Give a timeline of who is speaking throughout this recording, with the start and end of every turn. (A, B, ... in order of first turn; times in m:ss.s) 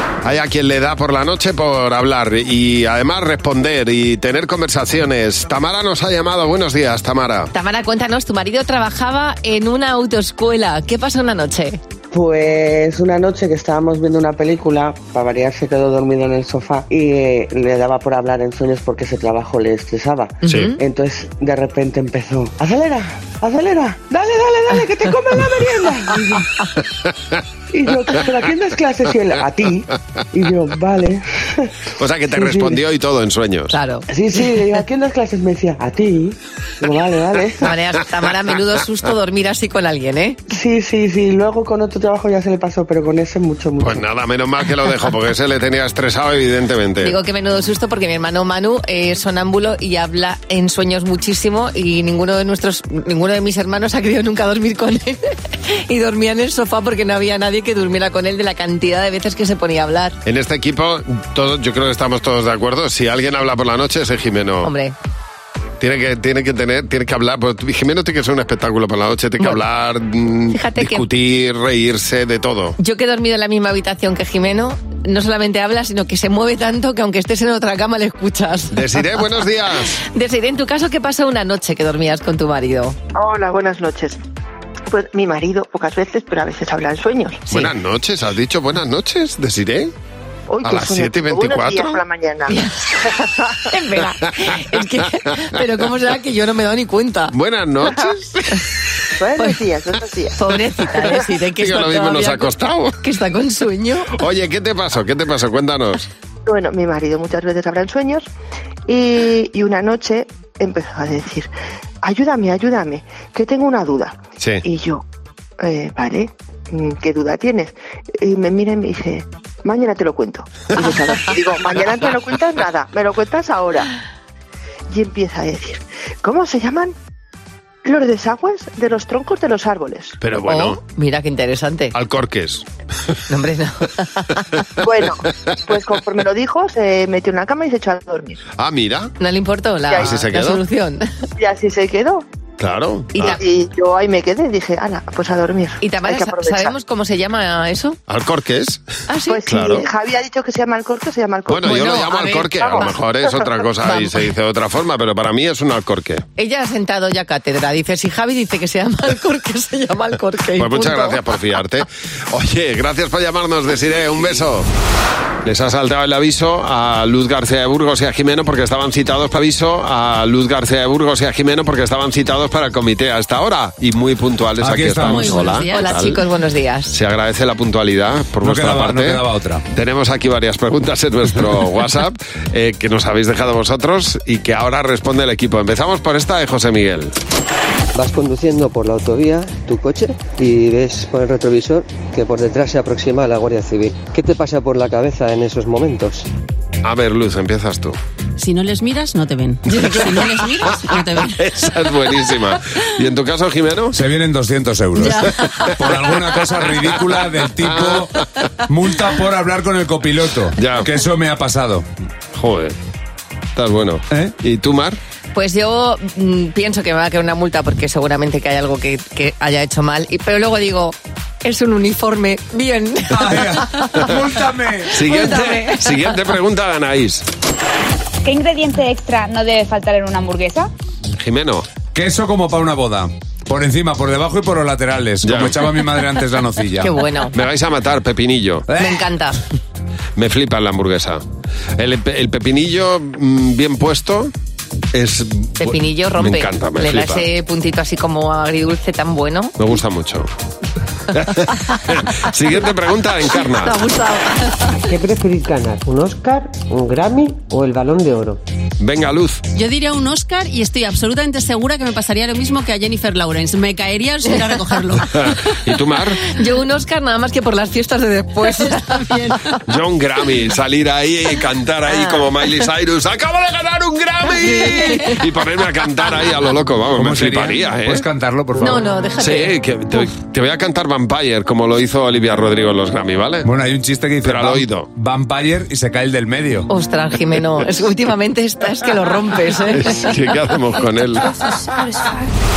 0:00.2-0:07.5 A
0:07.5-0:11.8 B
0:12.1-0:26.4 C
0:20.4-0:20.8 B
0:20.5-0:20.7 A
0:27.7-0:31.7 C
0:32.0-0:33.7 A
0:32.3-0:32.8 C
0:33.7-0:34.0 B
0:34.1-0:37.6 C
0:37.6-0:40.4 B
0:40.5-0:44.0 C
0:43.8-0:47.1 A
0:47.0-1:00.2 B
1:00.2-1:04.7 A
1:04.6-1:04.9 B
1:05.8-1:12.8 A
1:10.5-1:11.0 B
1:12.8-1:18.8 B
1:18.7-1:19.9 A
1:19.9-1:23.0 B
1:23.1-1:24.2 D
1:24.9-1:27.4 D
1:27.5-1:29.9 A
1:30.5-1:32.6 D
1:30.6-1:32.0 A
1:32.5-1:37.3 B
1:37.3-1:38.6 A
1:39.2-1:40.4 D
1:40.4-1:44.1 B
1:41.1-1:42.9 A
1:44.2-1:46.0 A
1:46.4-1:48.2 D
1:48.9-1:51.5 D
1:52.0-1:55.0 D
1:55.6-2:03.9 D
2:04.9-2:06.9 D
2:07.8-2:10.2 D
2:10.2-2:10.8 A
2:10.4-2:11.9 B
2:11.9-2:12.6 A
2:13.3-2:14.4 B
2:14.8-2:18.4 D
2:18.6-2:19.1 A
2:19.2-2:21.0 B
2:19.9-2:20.2 D
2:20.0-2:20.6 A
2:21.4-2:22.2 D
2:22.6-2:23.4 A
2:23.1-2:23.4 B
2:23.2-2:26.8 D
2:25.8-2:28.0 B
2:28.1-2:28.8 A
2:29.1-2:29.8 B
2:29.3-2:33.5 D
2:29.4-2:29.9 A
2:31.5-2:36.2 A
2:31.6-2:33.0 B
2:33.8-2:34.1 B
2:36.4-2:41.2 B
2:40.6-2:44.7 A
2:45.4-2:56.2 A
2:54.6-2:55.4 E
2:55.0-2:56.9 B
2:55.1-2:55.8 F
2:56.9-3:07.1 A
2:58.4-2:59.6 E
3:07.9-3:16.2 G
3:16.8-3:18.0 A
3:18.4-3:21.5 F
3:19.7-3:24.0 A
3:23.9-3:31.8 E
3:25.0-3:25.7 B
3:27.6-3:28.1 A
3:30.6-3:30.9 A
3:32.3-3:32.7 A
3:33.5-3:35.0 A
3:35.3-3:44.1 B
3:43.1-3:45.6 E
3:44.9-3:47.2 A
3:45.0-3:46.2 B
3:48.2-3:50.7 H
3:51.2-3:51.7 A
3:51.9-3:56.9 E
3:55.2-3:55.6 A
3:56.8-3:57.3 B
3:57.3-3:58.7 A
3:58.7-3:59.0 E
3:58.8-3:59.4 B
4:00.2-4:01.2 A
4:01.8-4:04.3 A
4:04.9-4:07.2 A
4:05.6-4:09.6 B
4:09.6-4:10.3 A
4:11.1-4:13.9 A
4:13.3-4:14.7 B
4:14.8-4:18.4 G
4:18.8-4:19.4 A
4:19.5-4:25.1 F
4:24.2-4:24.6 B
4:25.1-4:26.2 A
4:26.2-4:29.3 B
4:28.5-4:29.5 F
4:29.7-4:38.0 A
4:31.9-4:32.2 B
4:34.3-4:35.2 B
4:37.0-4:38.8 E
4:38.6-4:40.1 B
4:39.2-4:43.5 A
4:43.4-4:46.7 E
4:44.2-4:44.9 A
4:46.7-4:50.1 B
4:49.7-4:51.3 A